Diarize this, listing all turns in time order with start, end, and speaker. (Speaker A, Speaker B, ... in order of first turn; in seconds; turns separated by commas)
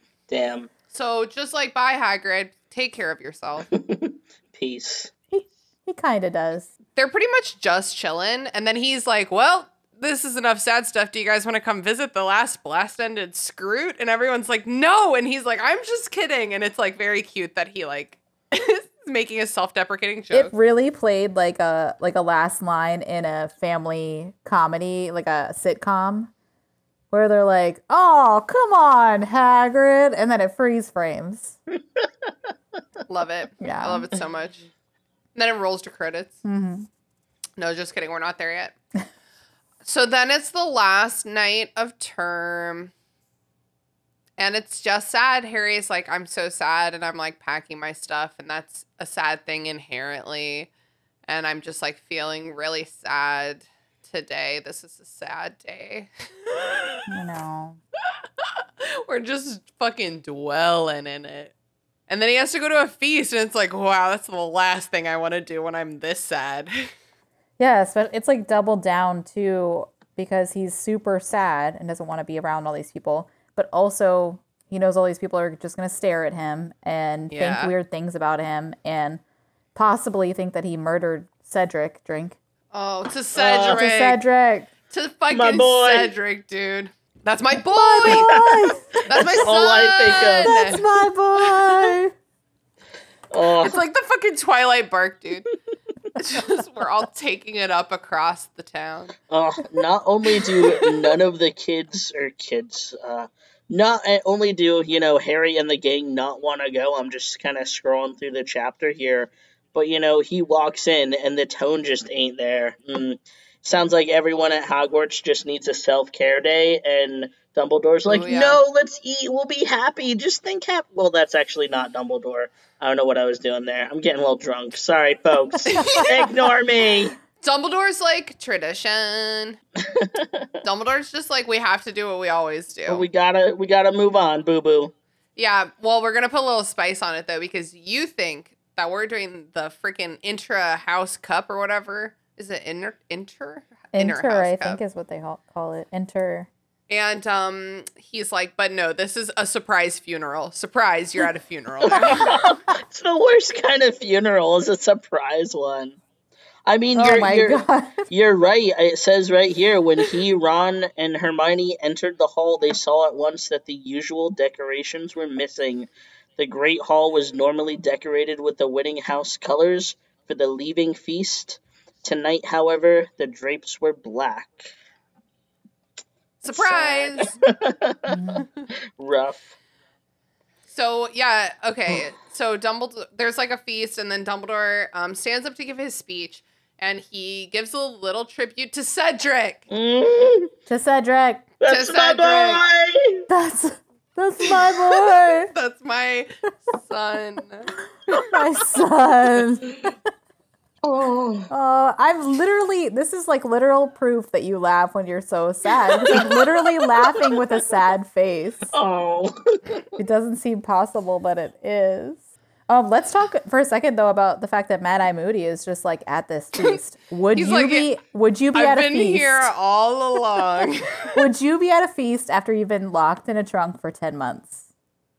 Speaker A: 0.3-0.7, Speaker B: 0.9-3.7, Speaker A: 3.7-5.1, Speaker C: 5.3-6.7, Speaker B: 7.0-20.5, Speaker C: 20.3-26.3, Speaker C: 27.1-31.6, Speaker B: 33.1-34.6, Speaker C: 33.6-34.1, Speaker B: 35.3-36.4, Speaker C: 36.4-36.9, Speaker B: 37.6-38.7, Speaker B: 39.8-42.9, Speaker B: 44.4-50.7, Speaker B: 51.3-57.0, Speaker C: 57.1-57.8, Speaker B: 58.8-61.5, Speaker B: 62.1-66.9, Speaker C: 67.6-79.2, Speaker B: 77.3-77.7, Speaker C: 79.7-82.4, Speaker B: 82.7-84.2, Speaker A: 83.3-83.8, Speaker C: 83.7-84.7, Speaker B: 84.9-88.3, Speaker A: 85.3-86.1, Speaker C: 87.5-89.3, Speaker A: 88.1-90.5, Speaker B: 89.0-90.8, Speaker C: 90.2-92.1, Speaker B: 91.4-91.7, Speaker A: 93.3-93.8, Speaker B: 93.6-95.5, Speaker B: 96.2-99.1, Speaker A: 99.3-127.2, Speaker B: 118.1-118.6, Speaker B: 125.7-126.1, Speaker C: 125.7-126.1, Speaker B: 127.4-129.6, Speaker A: 129.8-130.5, Speaker B: 130.6-133.0, Speaker A: 132.9-134.9, Speaker B: 135.3-144.8, Speaker C: 143.9-146.5, Speaker B: 146.9-152.2, Speaker A: 151.8-156.0, Speaker C: 151.9-152.3, Speaker A: 156.7-174.7, Speaker C: 156.9-158.0, Speaker B: 176.4-177.3, Speaker A: 176.5-178.2, Speaker C: 178.1-178.4, Speaker A: 179.0-179.5, Speaker B: 180.7-189.6, Speaker A: 189.7-190.5, Speaker C: 190.7-191.4, Speaker A: 191.6-193.2, Speaker B: 191.6-192.6, Speaker C: 193.3-195.5, Speaker B: 195.5-197.7, Speaker C: 198.3-199.9, Speaker A: 200.8-201.5, Speaker C: 201.5-208.7, Speaker A: 208.7-209.6, Speaker C: 210.0-219.5, Speaker B: 217.3-217.9, Speaker B: 218.5-221.1, Speaker C: 221.1-224.7